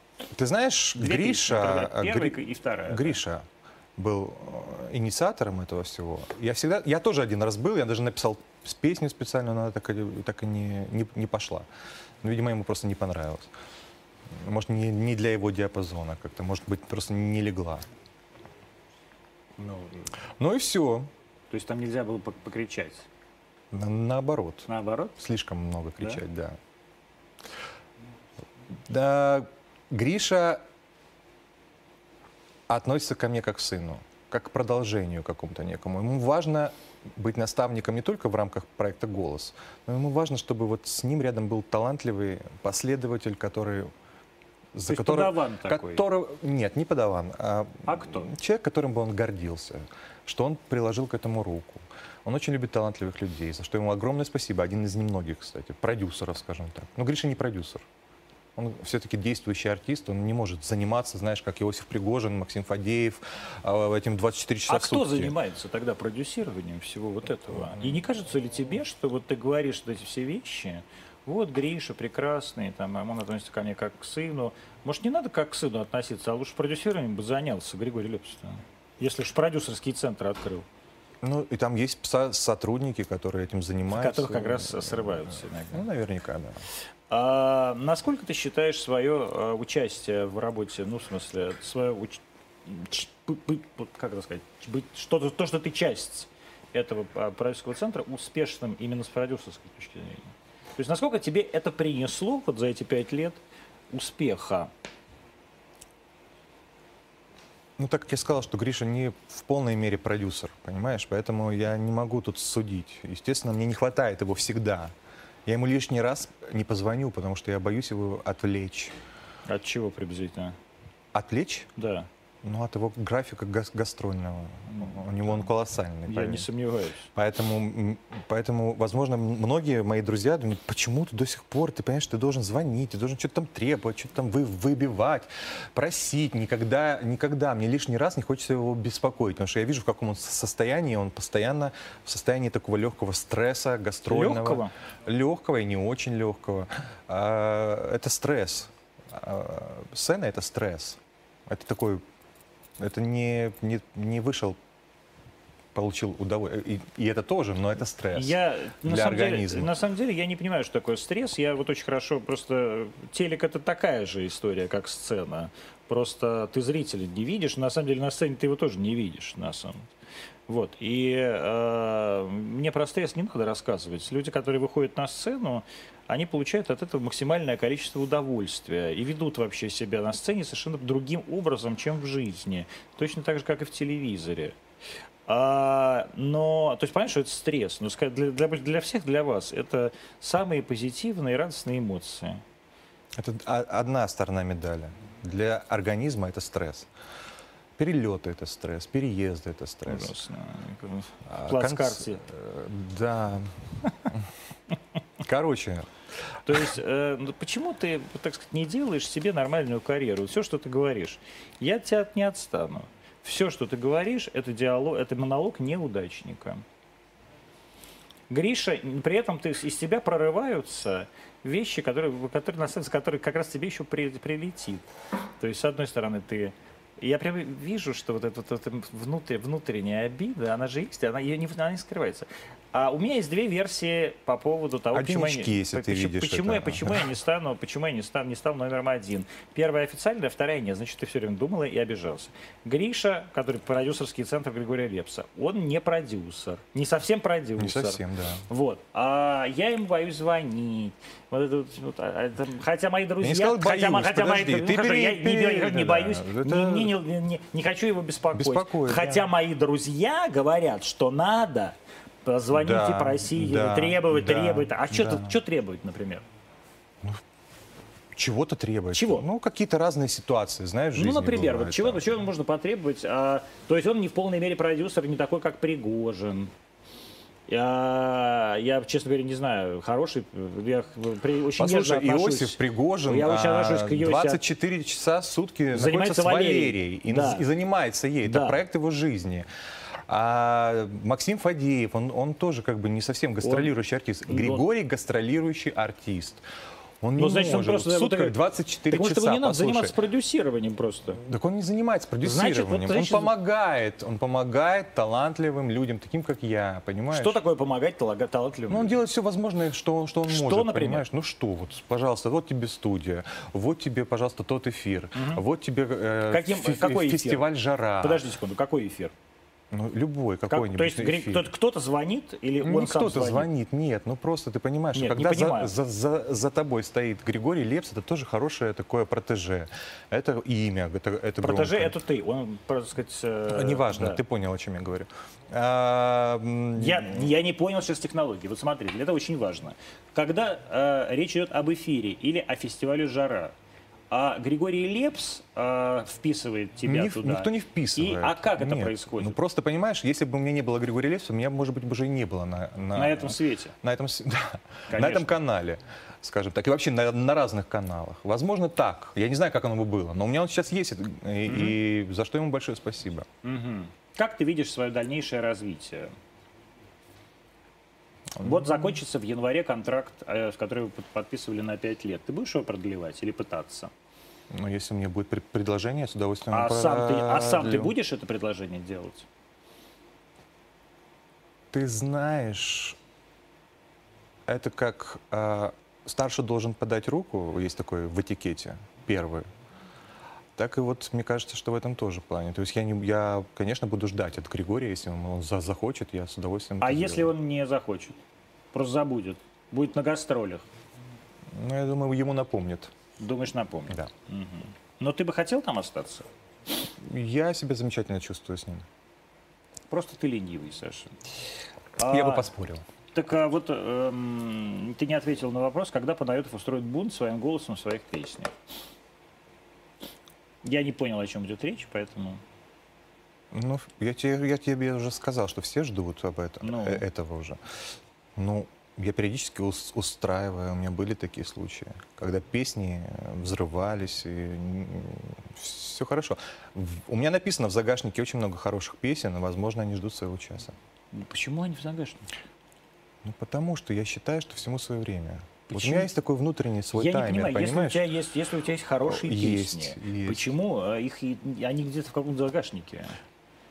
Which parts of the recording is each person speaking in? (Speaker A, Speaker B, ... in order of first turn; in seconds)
Speaker A: 0.3-11.7, 12.2-13.5, 14.3-17.9, 20.4-21.1, 23.7-26.6, 28.9-30.6, 32.7-43.9, 44.7-57.9, 58.6-65.3, 81.2-86.6, 107.8-114.9, 115.5-119.0, 121.1-121.7, 122.4-126.5, 127.1-152.0, 152.8-154.6, 155.7-159.7, 193.2-196.9, 197.8-200.2, 201.3-204.3, 205.2-205.9, 234.9-237.1, 247.6-248.4, 253.2-256.9, 258.3-259.3, 262.5-265.4, 268.1-272.1, 281.6-289.5, 290.1-296.4, 297.0-300.0, 301.2-307.4, 308.7-318.2, 319.7-321.5, 322.6-332.0, 333.5-337.3, 346.8-363.3, 374.5-377.9, 381.7-383.0, 384.5-389.5, 390.6-397.3, 401.5-402.9, 407.0-408.9, 412.1-412.8, 423.5-427.6, 428.4-440.8, 443.2-448.1, 449.0-450.6
Speaker B: 1.0-3.2, 19.6-20.0, 21.5-23.1, 24.7-25.2, 44.9-46.0, 47.9-48.3, 64.7-80.7, 83.9-85.9, 87.1-103.4, 103.9-104.7, 119.5-120.6, 121.8-122.1, 124.7-125.5, 126.1-127.1, 144.1-144.7, 158.1-169.9, 170.5-184.6, 185.3-192.4, 199.9-202.2, 206.4-216.6, 218.3-224.9, 225.4-266.2, 268.9-269.3, 270.9-276.5, 277.5-284.4, 285.7-287.5, 288.2-288.6, 293.4-293.7, 294.3-294.6, 297.2-298.4, 298.9-301.2, 302.2-303.4, 307.1-309.0, 310.3-311.1, 315.1-315.4, 316.3-317.5, 318.0-319.1, 320.5-323.5, 324.9-325.7, 331.4-334.2, 336.8-343.5, 344.1-349.4, 352.9-353.8, 354.9-355.4, 361.5-361.8, 363.4-366.1, 368.4-373.9, 376.5-379.3, 396.8-398.2, 398.7-400.6, 403.2-406.3, 409.9-411.2, 412.0-412.5, 413.1-418.5, 420.6-422.4, 426.6-427.0, 441.1-442.3, 445.7-446.1, 446.9-453.2